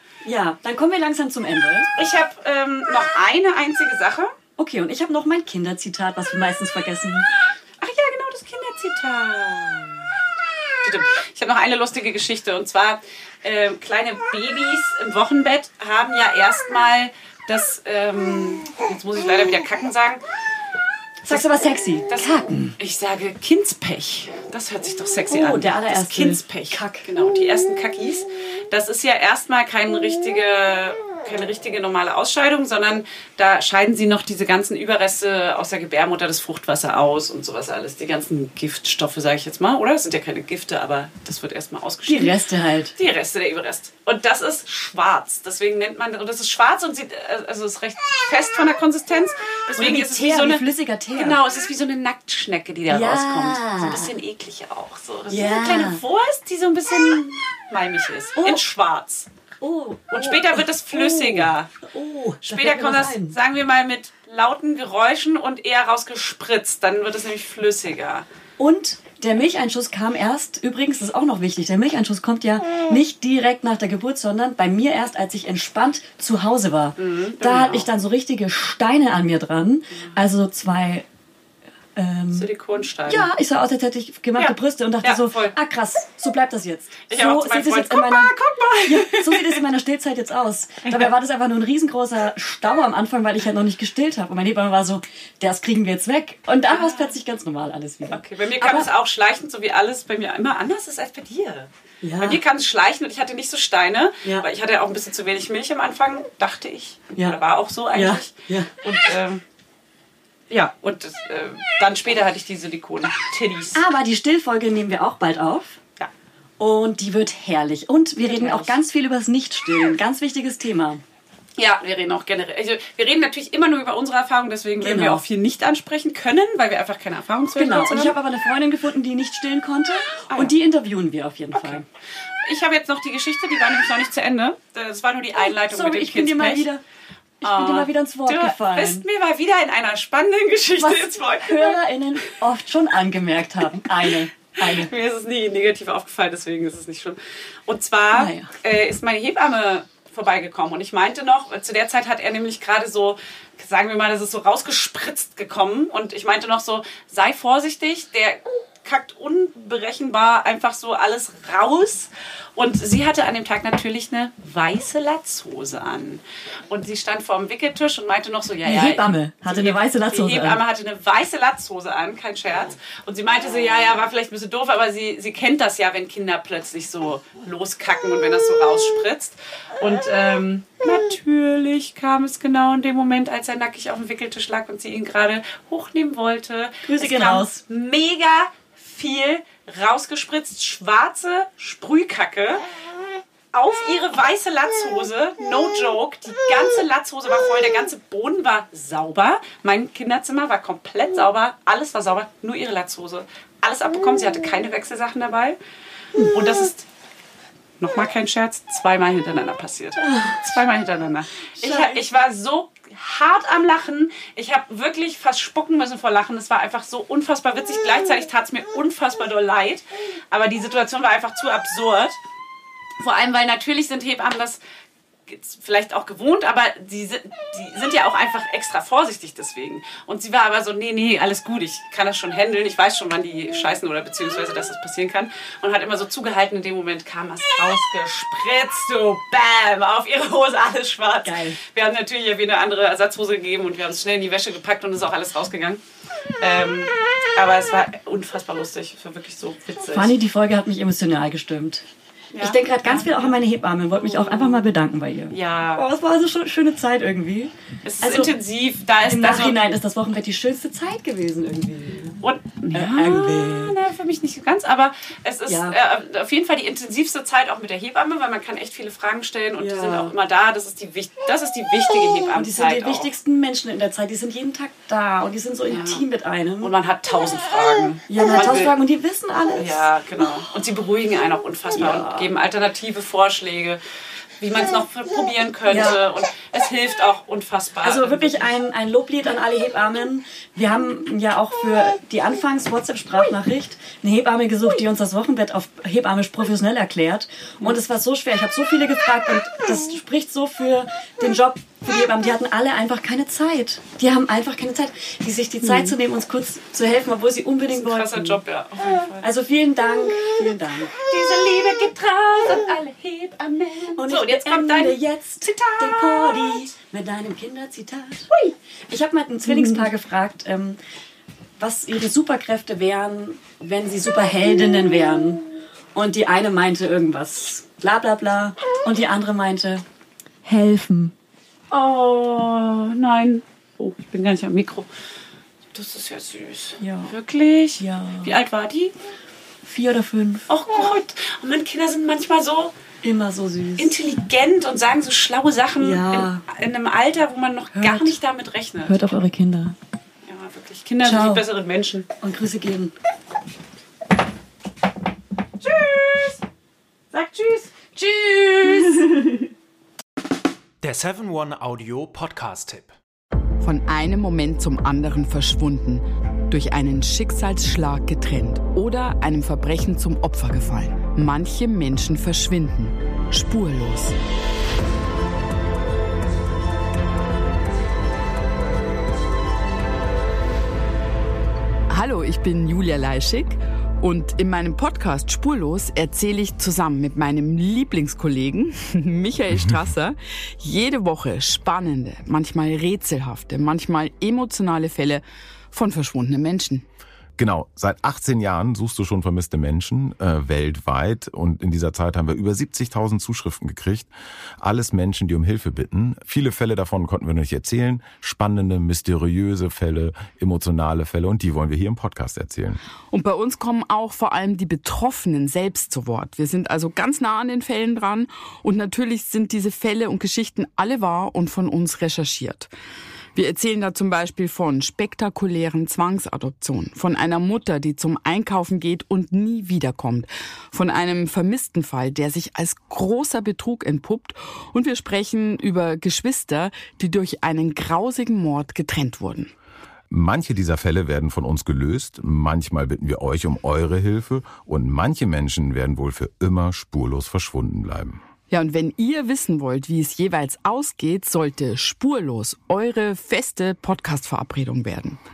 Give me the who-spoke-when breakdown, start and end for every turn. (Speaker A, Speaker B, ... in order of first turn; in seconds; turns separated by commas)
Speaker A: 0.2-1.9, Speaker B: 2.0-4.3, Speaker A: 4.6-7.3, Speaker B: 7.8-10.1, Speaker B: 10.8-20.2, Speaker A: 21.2-22.7, Speaker B: 21.3-42.4, Speaker A: 25.3-27.1, Speaker A: 42.1-42.9, Speaker B: 43.0-50.6, Speaker A: 49.7-51.4, Speaker B: 51.1-59.3, Speaker A: 52.9-54.1, Speaker A: 55.3-56.0, Speaker A: 59.6-63.4, Speaker B: 60.1-61.7, Speaker B: 62.4-68.2, Speaker A: 68.6-81.0, Speaker B: 77.0-77.9, Speaker A: 82.0-82.5, Speaker B: 82.3-83.3, Speaker A: 83.1-88.3, Speaker B: 84.3-85.5, Speaker B: 87.1-89.6, Speaker A: 88.8-98.9, Speaker B: 96.7-97.2, Speaker B: 98.1-101.7, Speaker A: 102.0-102.4, Speaker B: 102.2-109.4, Speaker A: 107.9-108.7, Speaker B: 110.5-113.8, Speaker A: 113.7-115.8, Speaker A: 116.6-121.0, Speaker B: 118.2-118.8, Speaker B: 121.6-128.2, Speaker A: 124.8-125.2, Speaker A: 127.5-131.8, Speaker B: 131.5-131.8, Speaker B: 132.4-136.7, Speaker A: 135.4-136.8, Speaker A: 137.4-139.0, Speaker B: 137.4-141.8, Speaker A: 140.8-144.9, Speaker B: 144.6-192.6, Speaker A: 148.1-148.5, Speaker A: 168.6-170.6, Speaker A: 186.8-187.6, Speaker B: 193.5-205.6, Speaker B: 206.3-206.8, Speaker B: 207.8-222.2, Speaker A: 210.1-210.4, Speaker A: 211.6-212.0, Speaker B: 223.0-224.6, Speaker B: 225.3-245.8, Speaker A: 241.2-241.6, Speaker B: 246.4-250.2, Speaker A: 249.9-251.8, Speaker B: 252.3-253.4, Speaker A: 252.4-257.5, Speaker B: 253.9-254.6, Speaker B: 255.3-255.8, Speaker B: 257.9-259.6, Speaker A: 258.0-258.3, Speaker A: 259.1-262.2, Speaker B: 262.2-273.1, Speaker A: 262.7-263.7, Speaker A: 265.5-265.8, Speaker A: 269.6-270.1, Speaker A: 272.3-276.7, Speaker B: 275.7-276.0, Speaker B: 276.6-278.7, Speaker A: 278.1-279.9, Speaker B: 279.6-283.8, Speaker A: 281.7-282.3, Speaker B: 284.4-288.5, Speaker A: 285.7-286.0, Speaker A: 287.8-308.4, Speaker B: 305.6-305.9, Speaker B: 307.7-309.2, Speaker A: 309.2-310.9, Speaker B: 311.0-316.6, Speaker A: 314.0-318.3, Speaker A: 318.9-320.8, Speaker B: 319.4-319.9, Speaker A: 321.6-329.8, Speaker A: 330.4-331.1, Speaker B: 331.7-334.9, Speaker B: 335.7-338.9, Speaker A: 336.8-337.1, Speaker A: 337.8-338.3, Speaker A: 339.6-340.5, Speaker B: 340.5-342.7, Speaker A: 343.0-343.9, Speaker B: 343.8-349.0, Speaker A: 345.8-346.4, Speaker A: 347.7-348.1, Speaker A: 348.9-349.8, Speaker B: 350.2-352.1, Speaker A: 351.0-351.4, Speaker A: 352.2-352.9, Speaker B: 355.6-356.4, Speaker B: 357.1-359.4, Speaker C: 360.8-362.9, Speaker D: 363.6-374.1, Speaker D: 381.9-396.8, Speaker E: 397.4-404.1, Speaker E: 404.6-412.8, Speaker D: 413.1-422.7, Speaker D: 423.3-439.5, Speaker E: 440.1-448.2, Speaker D: 448.5-455.2